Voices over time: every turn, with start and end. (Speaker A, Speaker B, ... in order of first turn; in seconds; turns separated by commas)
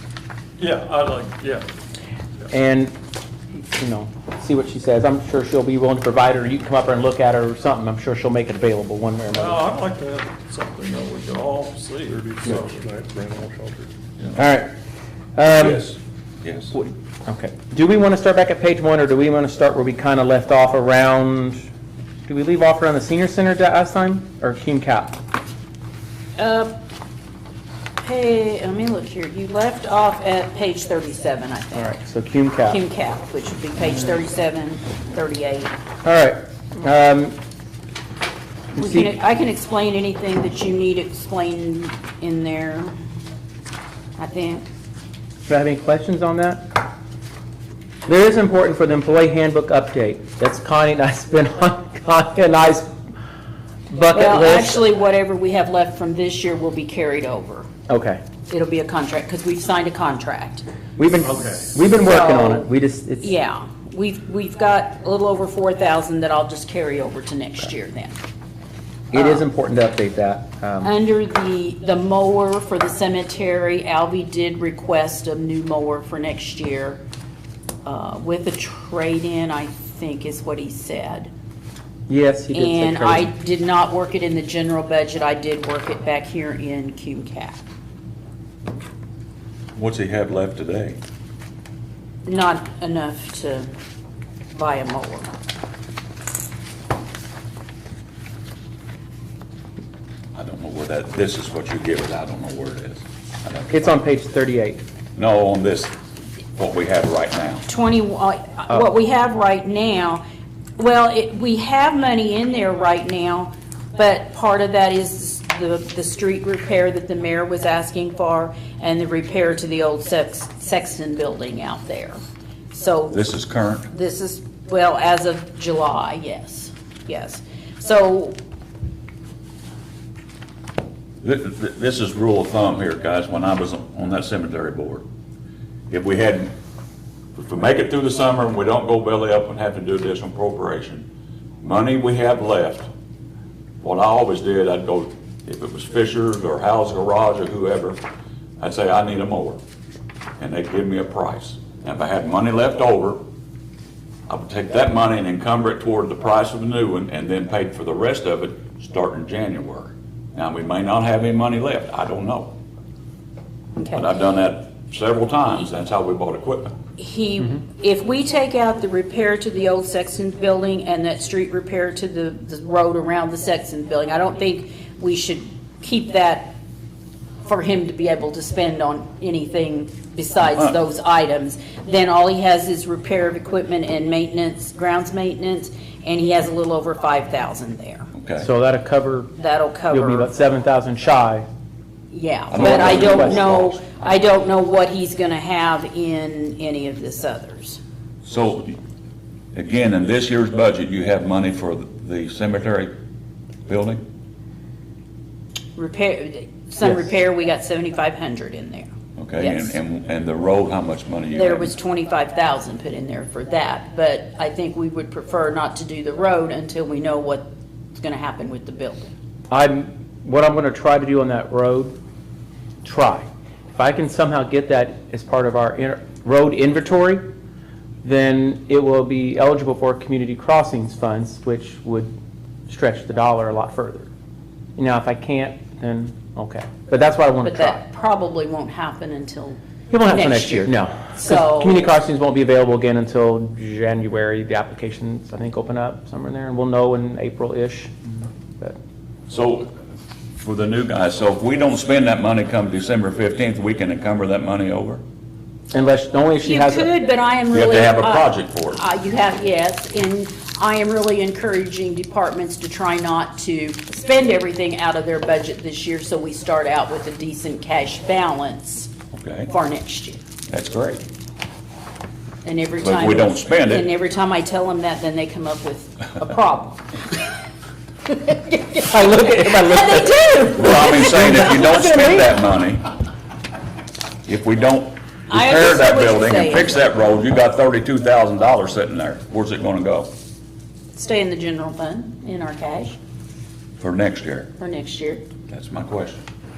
Speaker A: 0.6-1.7, Speaker B: 2.5-2.9, Speaker B: 3.7-9.6, Speaker A: 9.3-13.9, Speaker B: 14.3-14.7, Speaker B: 15.4-15.9, Speaker C: 15.5-16.8, Speaker B: 16.7-21.7, Speaker B: 22.3-25.2, Speaker D: 26.4-26.8, Speaker D: 28.0-32.0, Speaker B: 31.8-32.8, Speaker D: 32.6-35.8, Speaker B: 36.0-37.4, Speaker D: 38.8-42.9, Speaker B: 38.8-39.1, Speaker D: 44.2-44.7, Speaker B: 45.5-46.6, Speaker B: 48.1-52.9, Speaker B: 53.9-54.8, Speaker D: 54.1-57.7, Speaker B: 57.9-58.2, Speaker D: 58.5-60.6, Speaker B: 61.0-63.3, Speaker A: 61.3-61.8, Speaker D: 62.0-62.7, Speaker D: 63.2-68.2, Speaker B: 69.1-70.9, Speaker D: 69.1-69.4, Speaker D: 70.8-77.0, Speaker D: 77.8-81.3, Speaker B: 82.1-83.3, Speaker D: 82.5-87.6, Speaker C: 89.8-91.0, Speaker D: 92.3-93.7, Speaker D: 94.5-95.3, Speaker C: 100.3-103.9, Speaker B: 103.7-104.8, Speaker C: 105.2-105.9, Speaker C: 106.5-107.7, Speaker D: 107.7-110.2, Speaker D: 110.8-122.2, Speaker D: 122.7-123.2, Speaker C: 123.1-123.9, Speaker D: 123.9-128.4, Speaker C: 131.2-135.0, Speaker C: 135.9-136.5, Speaker C: 137.4-141.1, Speaker C: 141.6-142.9, Speaker C: 143.8-148.0, Speaker C: 148.6-149.6, Speaker C: 150.4-153.2, Speaker C: 154.3-162.5, Speaker D: 163.8-164.1, Speaker C: 163.9-166.7, Speaker D: 167.0-176.6, Speaker D: 177.4-188.1, Speaker C: 180.4-180.8, Speaker C: 188.1-188.5, Speaker B: 188.4-189.3, Speaker D: 189.4-190.3, Speaker B: 189.9-191.5, Speaker D: 192.1-197.8, Speaker C: 192.5-193.8, Speaker B: 192.5-193.4, Speaker C: 198.2-198.8, Speaker C: 199.5-202.9, Speaker C: 203.7-204.0, Speaker D: 205.8-209.8, Speaker C: 209.2-211.7, Speaker D: 211.3-219.1, Speaker B: 219.5-221.9, Speaker B: 222.8-227.3, Speaker B: 228.0-232.1, Speaker B: 232.7-234.1, Speaker B: 234.8-237.8, Speaker D: 237.4-241.9, Speaker B: 239.9-247.9, Speaker C: 249.3-249.7, Speaker C: 250.4-255.0, Speaker B: 255.7-256.9, Speaker D: 256.4-268.9, Speaker C: 257.5-258.8, Speaker C: 269.1-269.5, Speaker D: 269.5-270.2, Speaker C: 270.5-271.0, Speaker D: 272.4-277.3, Speaker C: 272.8-273.9, Speaker D: 278.1-281.8, Speaker B: 278.9-282.3, Speaker C: 280.6-282.9, Speaker C: 284.3-290.1, Speaker D: 285.3-287.0, Speaker D: 290.9-293.0, Speaker C: 293.8-294.5, Speaker D: 294.6-295.3, Speaker C: 295.5-296.2